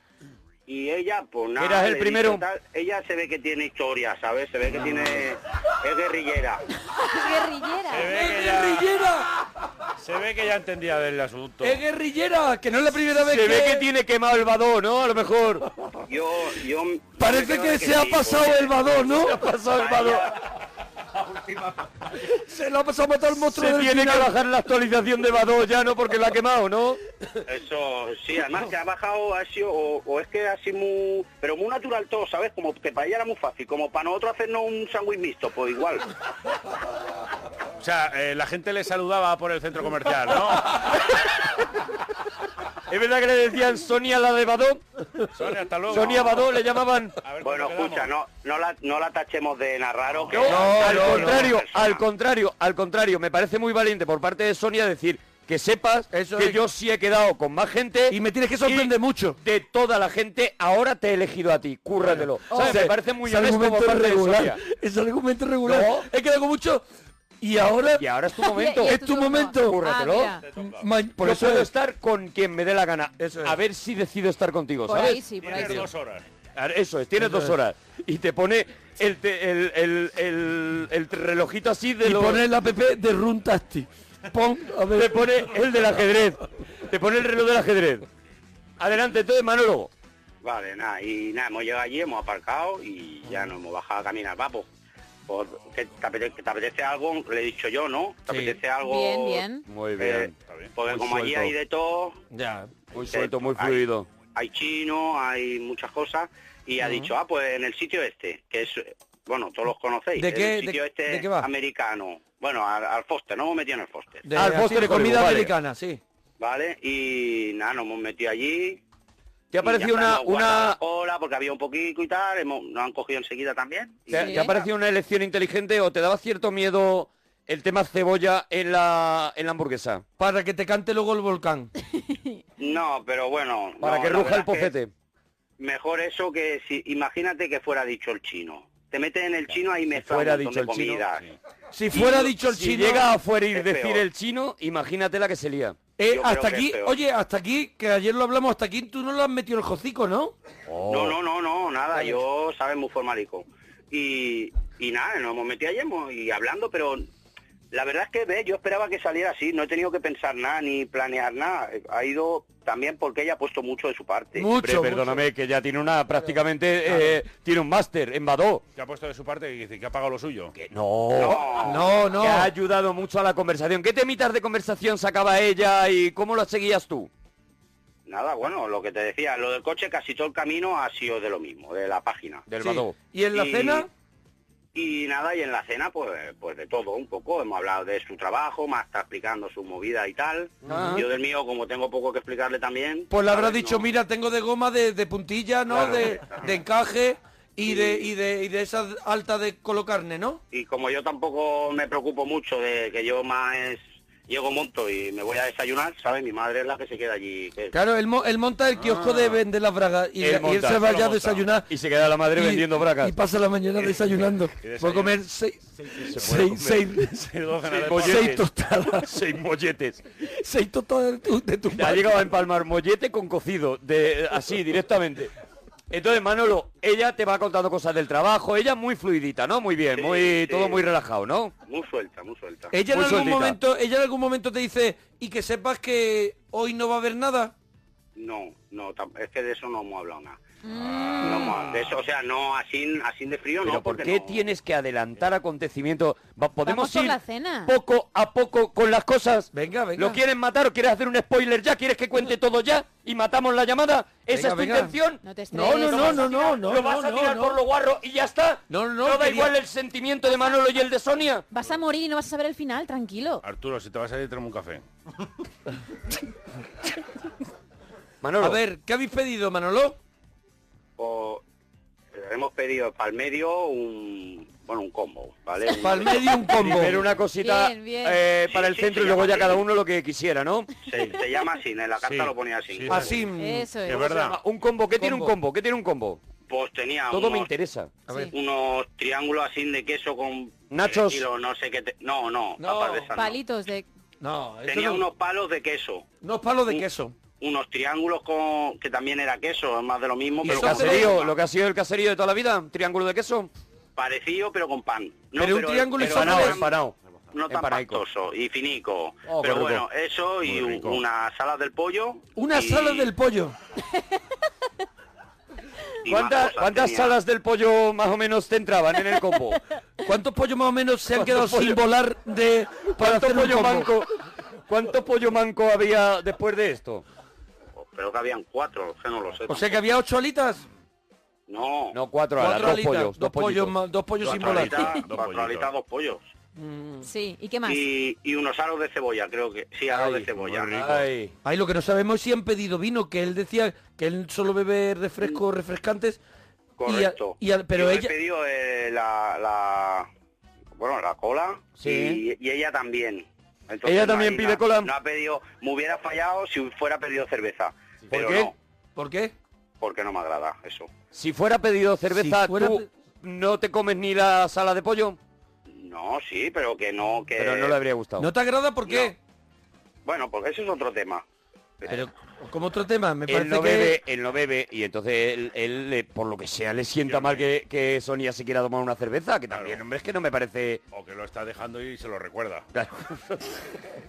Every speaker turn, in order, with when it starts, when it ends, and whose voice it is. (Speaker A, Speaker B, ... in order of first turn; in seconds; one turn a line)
Speaker A: 0.7-6.6
Speaker B: 1.6-2.4
Speaker C: 7.0-8.1
Speaker D: 7.9-8.9
Speaker E: 8.0-9.3
Speaker D: 10.0-11.8
Speaker E: 11.6-13.8
Speaker B: 13.1-15.7
Speaker A: 16.1-19.1
Speaker E: 17.2-19.4
Speaker B: 18.8-20.3
Speaker A: 19.7-20.4
Speaker E: 22.2-24.3
Speaker B: 23.3-27.0
Speaker A: 27.4-36.0
Speaker D: 37.8-40.8
Speaker B: 42.9-44.8
Speaker D: 45.4-46.5
Speaker B: 45.9-47.1
Speaker D: 47.2-48.1
Speaker A: 47.4-52.0
Speaker B: 50.3-64.6
Speaker E: 50.4-51.5
Speaker E: 56.1-56.6
Speaker E: 58.1-59.4
Speaker E: 62.0-66.8
Speaker C: 62.5-62.8
Speaker B: 65.6-66.1
Speaker E: 67.4-68.1
Speaker B: 67.9-69.0
Speaker C: 68.4-70.4
Speaker E: 68.7-69.8
Speaker B: 69.6-70.3
Speaker D: 70.5-70.9
Speaker E: 70.5-71.7
Speaker B: 71.2-75.2
Speaker E: 73.2-73.6
Speaker C: 74.8-75.8
Speaker E: 74.9-75.8
Speaker D: 75.3-76.2
Speaker B: 76.5-82.4
Speaker E: 77.2-77.5
Speaker E: 82.0-85.2
Speaker B: 84.9-88.0
Speaker B: 88.8-89.9
Speaker A: 90.4-94.7
Speaker A: 95.3-99.5
Speaker E: 98.3-98.5
Speaker C: 98.8-99.7
Speaker B: 99.7-100.3
Speaker A: 100.0-102.2
Speaker D: 100.4-100.7
Speaker B: 100.8-101.5
Speaker E: 102.3-102.7
Speaker B: 102.9-104.1
Speaker A: 103.1-114.2
Speaker E: 110.2-111.5
Speaker E: 114.2-116.0
Speaker B: 114.3-115.5
Speaker A: 116.4-118.8
Speaker B: 119.5-120.8
Speaker A: 119.6-124.6
Speaker B: 124.1-130.0
Speaker C: 124.1-124.6
Speaker E: 130.2-131.7
Speaker C: 132.1-132.4
Speaker A: 132.6-134.7
Speaker B: 133.8-134.9
Speaker A: 135.6-141.2
Speaker B: 139.9-141.0
Speaker E: 141.7-143.1
Speaker A: 141.9-142.3
Speaker B: 142.4-145.8
Speaker A: 143.5-144.0
Speaker E: 146.0-150.3
Speaker A: 146.1-147.0
Speaker B: 150.7-151.1
Speaker A: 150.9-157.1
Speaker A: 157.7-164.5
Speaker E: 164.4-165.2
Speaker B: 164.6-168.6
Speaker E: 166.9-167.2
Speaker D: 168.8-170.5
Speaker B: 170.5-177.1
Speaker A: 171.2-172.0
Speaker E: 171.6-172.5
Speaker A: 178.1-182.4
Speaker B: 182.5-182.9
Speaker E: 182.6-183.9
Speaker A: 183.3-183.8
Speaker A: 184.7-193.9
Speaker E: 190.6-191.0
Speaker B: 190.7-191.0
Speaker E: 193.1-200.4
Speaker A: 195.7-196.6
Speaker A: 197.7-198.1
Speaker A: 200.5-207.8
Speaker E: 207.7-211.7
Speaker D: 208.8-209.4
Speaker B: 210.2-213.1
Speaker E: 212.3-219.1
Speaker D: 214.6-215.2
Speaker B: 216.1-216.8
Speaker D: 217.2-218.4
Speaker B: 217.7-220.0
Speaker E: 220.3-222.3
Speaker B: 221.7-225.3
Speaker B: 225.9-231.5
Speaker A: 229.9-230.8
Speaker A: 231.7-232.7
Speaker E: 232.7-237.5
Speaker B: 232.9-233.6
Speaker A: 238.2-240.4
Speaker C: 240.6-241.7
Speaker A: 241.2-244.4
Speaker B: 243.6-255.2
Speaker C: 246.6-247.7
Speaker E: 249.5-250.2
Speaker E: 254.3-254.9
Speaker C: 255.2-256.6
Speaker E: 255.5-257.6
Speaker B: 255.7-261.4
Speaker E: 258.7-259.5
Speaker C: 261.5-263.4
Speaker D: 263.4-264.8
Speaker B: 268.2-268.6
Speaker E: 268.4-269.9
Speaker A: 271.0-271.4
Speaker A: 272.1-276.5
Speaker E: 275.8-277.0
Speaker B: 276.6-280.7
Speaker C: 277.4-278.3
Speaker A: 278.5-279.6
Speaker A: 280.9-283.2
Speaker D: 282.0-283.2
Speaker E: 282.9-283.7
Speaker C: 283.4-284.1
Speaker D: 283.9-284.4
Speaker B: 283.9-286.2
Speaker E: 285.0-285.3
Speaker A: 286.5-287.5
Speaker B: 287.1-287.9
Speaker A: 288.3-293.4
Speaker B: 290.7-291.2
Speaker E: 292.6-293.1
Speaker C: 293.1-293.9
Speaker E: 294.2-295.0
Speaker A: 294.6-296.1
Speaker E: 296.2-297.1
Speaker A: 297.4-301.4
Speaker E: 300.4-301.1
Speaker B: 300.4-303.5
Speaker A: 303.9-306.8
Speaker E: 305.4-306.6
Speaker B: 306.0-306.9
Speaker A: 307.3-313.1
Speaker B: 307.5-308.0
Speaker B: 309.3-309.8
Speaker D: 310.4-311.0
Speaker E: 312.4-313.6
Speaker A: 316.0-317.2
Speaker B: 316.1-319.6
Speaker E: 320.0-323.9
Speaker B: 321.1-321.8
Speaker B: 323.0-324.1
Speaker B: 324.7-327.0
Speaker A: 327.8-329.8
Speaker E: 329.5-330.6
Speaker A: 331.5-332.0
Speaker B: 331.9-333.8
Speaker E: 332.4-334.9
Speaker D: 334.2-335.7
Speaker A: 334.2-336.2
Speaker E: 336.6-337.1
Speaker C: 337.0-337.9
Speaker A: 337.6-340.9
Speaker B: 339.9-341.3
Speaker D: 340.3-341.1
Speaker E: 341.4-346.2
Speaker A: 346.8-350.1
Speaker E: 346.9-348.1
Speaker A: 350.8-358.5
Speaker B: 351.8-352.2
Speaker B: 353.8-354.9
Speaker B: 358.1-358.5
Speaker E: 358.9-359.3
Speaker A: 359.8-360.9
Speaker B: 361.1-365.2
Speaker E: 362.1-362.9
Speaker A: 365.7-367.8
Speaker B: 367.4-368.3
Speaker E: 368.2-369.2
Speaker A: 368.9-369.1
Speaker A: 370.0-371.2
Speaker E: 371.9-374.0
Speaker B: 373.3-380.8
Speaker D: 377.0-377.4
Speaker D: 379.5-379.8
Speaker D: 380.9-382.7
Speaker B: 382.7-383.4